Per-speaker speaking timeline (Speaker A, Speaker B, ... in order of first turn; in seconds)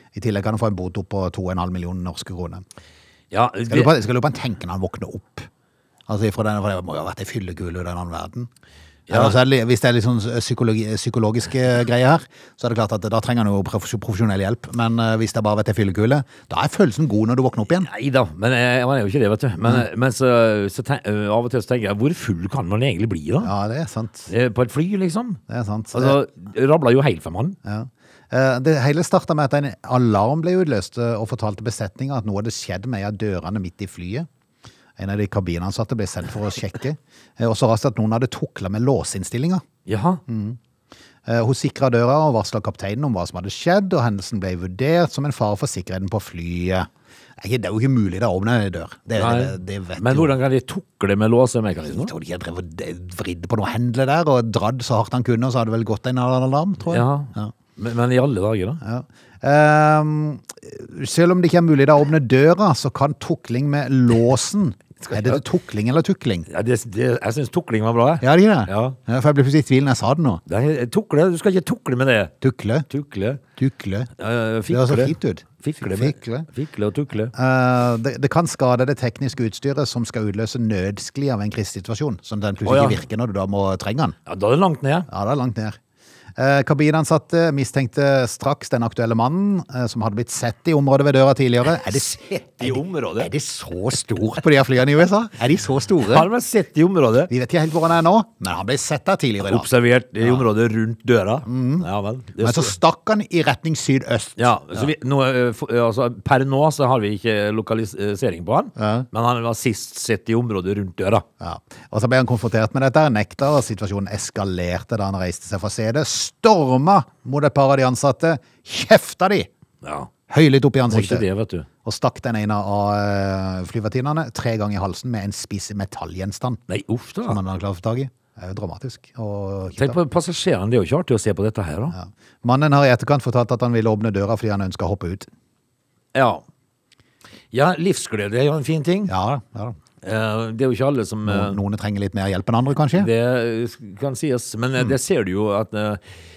Speaker A: 0.1-2.6, 3.7-5.5, 6.1-8.5, 9.1-17.9, 23.4-24.3, 25.5-26.2, 27.6-34.3, 35.0-39.6, 40.3-40.6, 41.2-46.9, 47.4-50.3, 51.8-57.5, 58.8-66.5, 68.2-70.4, 72.4-72.9, 73.6-74.1, 74.7-76.5, 77.3-84.1, 85.1-85.8, 86.4-96.2, 97.3-99.7, 100.2-100.4, 101.5-101.9, 102.4-104.9, 108.8-109.0, 111.4-119.5, 120.3-121.2, 121.8-126.6, 127.2-130.0, 131.9-135.3, 139.1-139.8, 141.2-143.1
Speaker B: 3.3-3.9, 9.1-9.4, 17.9-23.5, 24.3-25.4, 25.9-27.6, 39.9-40.2, 49.2-52.1, 56.9-58.8, 65.1-65.4, 66.5-69.0, 70.5-72.3, 72.9-73.4, 74.2-77.3, 82.6-83.0, 84.2-85.1, 91.8-93.3, 96.0-97.3, 99.4-102.7, 104.4-111.2, 119.8-120.1, 120.9-121.7, 126.7-127.4, 129.8-131.9, 136.1-136.4, 137.5-139.1, 140.0-141.6, 142.9-146.0